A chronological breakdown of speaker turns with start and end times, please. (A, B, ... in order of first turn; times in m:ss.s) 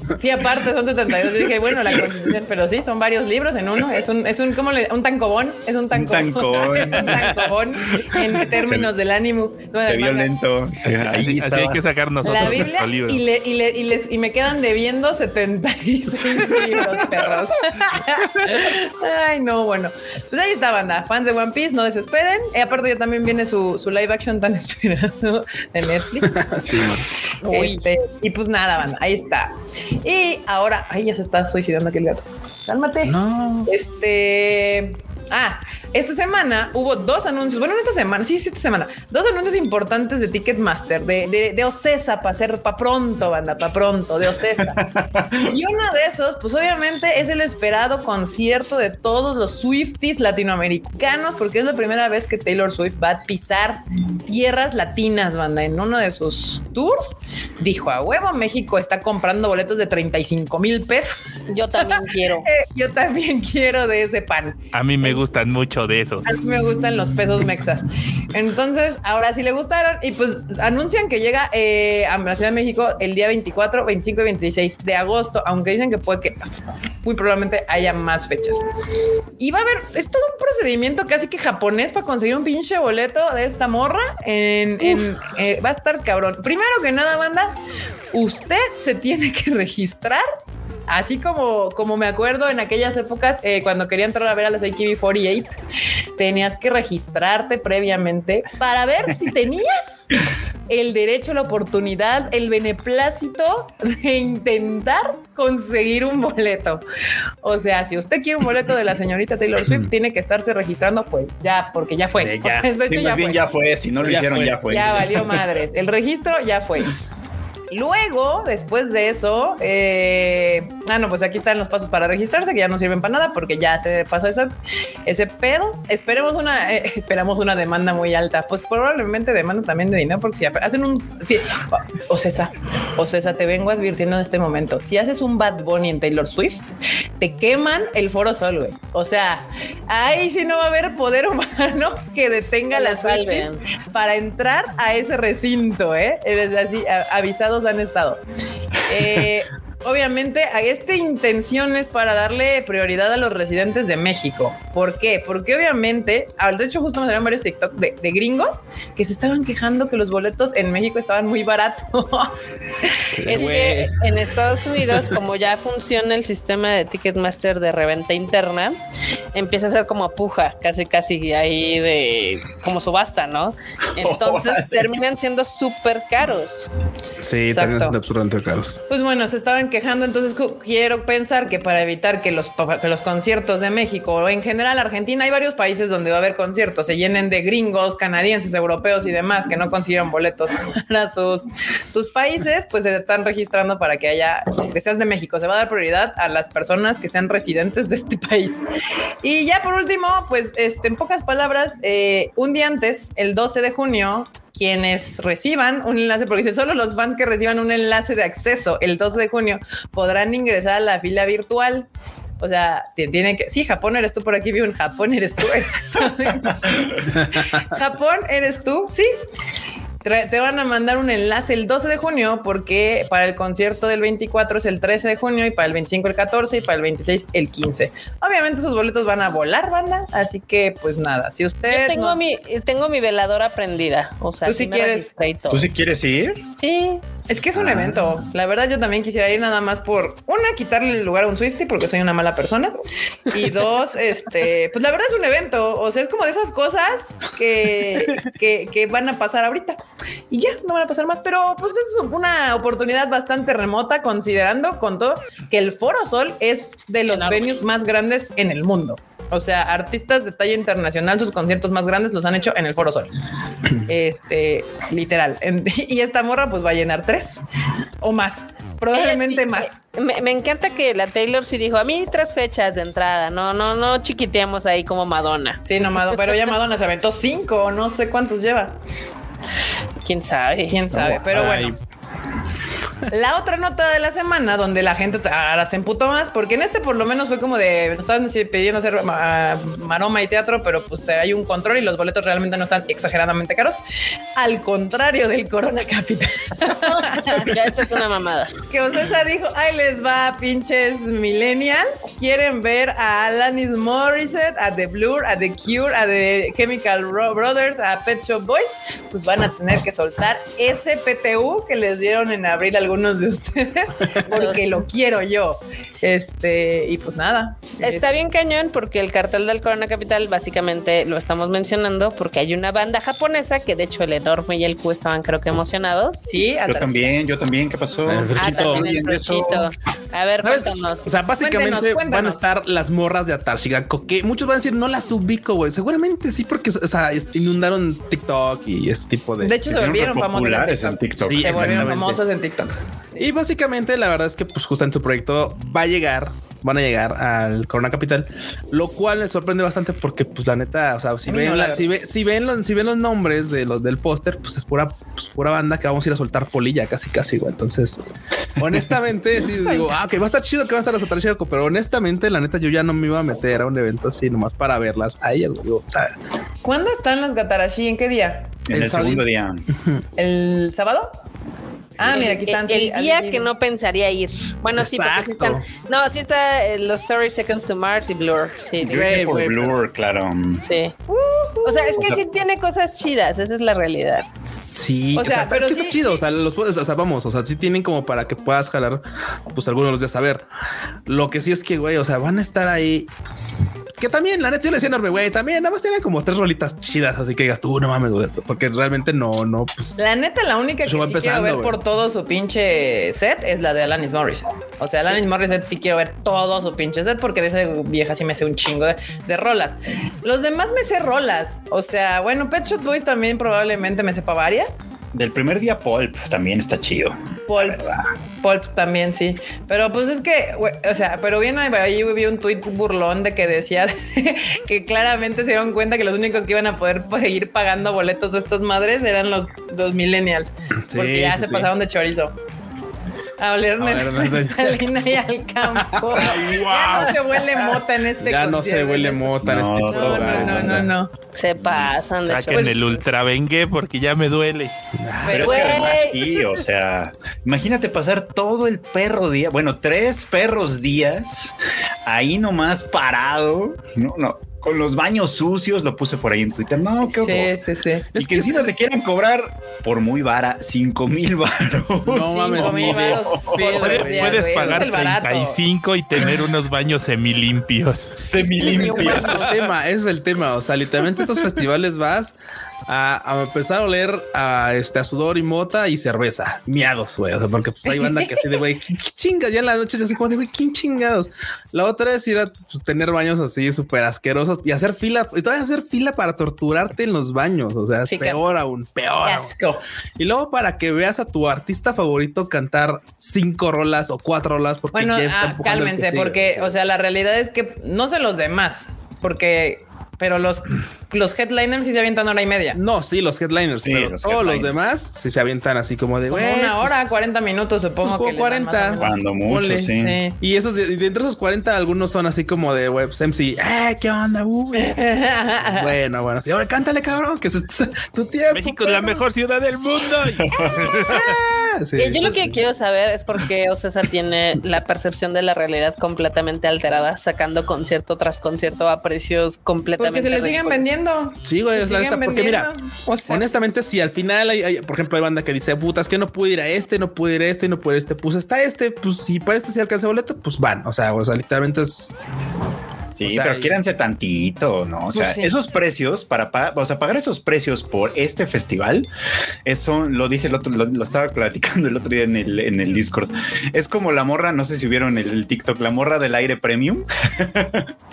0:00.2-0:10.3 A
0:05.9-0:07.4 B
0:08.4-0:08.9 B
0:09.8-0:11.8 B
0:10.8-0:13.2 C
0:12.2-0:26.9 A
0:26.2-0:27.1 D
0:27.4-0:27.9 E
0:27.4-0:33.1 A
0:33.0-0:33.7 D
0:33.6-0:44.8 A
0:44.7-0:45.5 B
0:45.4-1:05.2 A
1:01.5-1:02.5 E
1:04.7-1:06.3 C
1:06.2-1:16.4 A
1:17.0-1:18.6 A
1:19.4-1:27.6 A
1:28.1-1:30.2 A
1:30.9-1:35.6 A
1:36.2-1:40.1 A
1:40.7-1:46.8 A
1:47.4-1:53.4 A
1:52.2-1:52.7 D
1:52.9-1:55.4 B
1:54.0-1:55.2 D
1:54.7-1:56.9 A
1:57.7-2:04.5 A
2:05.0-2:28.2 A
2:22.7-2:23.6 E
2:28.8-2:43.1 A
2:43.2-2:44.0 D
2:43.2-2:48.8 E
2:49.3-2:56.7 E
2:54.0-2:54.9 B
2:57.2-2:58.8 D
2:57.5-2:58.0 A
2:58.9-3:18.6 A
3:19.2-3:31.9 A
3:32.4-3:39.1 A
3:37.1-3:37.6 D
3:40.0-3:52.2 A
3:51.7-3:55.7 E
3:54.4-3:55.1 A
3:55.5-3:56.4 B
3:56.6-3:57.0 E
3:57.3-4:09.8 A
3:57.5-3:58.2 B
4:10.3-4:23.1 A
4:17.1-4:17.5 E
4:23.8-4:27.4 A
4:28.0-4:29.8 A
4:28.9-4:35.6 E
4:35.6-4:38.7 A
4:40.0-4:40.8 E
4:40.7-4:41.8 A
4:41.0-4:41.8 D
4:43.1-4:53.8 A
4:54.3-4:57.5 A
4:56.8-4:58.5 E
4:58.7-5:18.1 A
5:14.3-5:14.6 E
5:17.8-5:26.2 E
5:26.3-5:27.2 A
5:26.6-5:29.6 B
5:28.1-5:29.5 D
5:28.4-5:31.1 E
5:30.4-5:39.6 D
5:31.4-5:32.5 A
5:39.4-5:43.3 A
5:39.6-5:42.2 B
5:41.2-5:42.2 D
5:43.2-5:58.0 D
5:51.2-5:51.9 A
5:58.6-6:06.1 D
5:59.5-5:59.9 A
6:06.6-6:08.6 A
6:08.6-6:09.6 B
6:08.7-6:09.2 D
6:10.2-6:11.1 A
6:12.0-6:13.5 A
6:12.0-6:19.2 E
6:14.7-6:15.7 D
6:18.8-6:20.6 B
6:18.8-6:19.7 D
6:20.6-6:20.9 E
6:21.1-6:22.1 A
6:21.6-6:24.3 E
6:24.7-6:30.4 D
6:25.1-6:26.2 A
6:31.1-6:33.1 D
6:34.0-6:40.0 D
6:40.0-6:54.8 A
6:40.8-6:41.8 D
6:55.1-6:58.1 B
6:57.5-6:57.8 A
6:58.4-7:12.3 A
7:10.9-7:11.7 D
7:13.4-7:21.1 A
7:13.8-7:14.8 D
7:15.8-7:17.6 D
7:16.2-7:17.1 B
7:18.2-7:20.9 D
7:19.4-7:20.9 B
7:21.3-7:22.7 E
7:22.2-7:24.7 C
7:22.5-7:22.9 A
7:25.0-7:25.8 D
7:25.2-7:26.1 A
7:25.3-7:37.5 B
7:25.3-7:26.6 E
7:37.0-7:38.1 A
7:38.1-7:38.7 D
7:38.1-7:43.6 B
7:42.0-7:44.9 D
7:42.2-7:45.6 A
7:43.6-7:48.2 C
7:48.2-7:49.4 B
7:48.3-7:52.3 D
7:48.6-7:49.4 A
7:52.9-8:09.5 D
7:57.8-7:58.5 A
8:08.1-8:08.4 A
8:09.2-8:09.8 A
8:10.2-8:16.6 D
8:14.9-8:22.8 A
8:16.4-8:16.7 B
8:22.7-8:27.0 D
8:23.8-8:24.7 B
8:26.3-8:29.2 A
8:28.0-8:34.9 D
8:29.0-8:30.2 B
8:29.9-8:30.3 A
8:34.7-8:35.9 A
8:35.7-8:39.2 D
8:38.5-8:41.4 C
8:40.9-8:42.6 D
8:42.0-8:51.0 E
8:50.0-8:53.5 A
8:51.4-8:52.7 D
8:53.3-9:02.2 D
9:03.2-9:09.1 B
9:03.2-9:03.7 D
9:05.1-9:05.5 A
9:09.6-9:17.9 B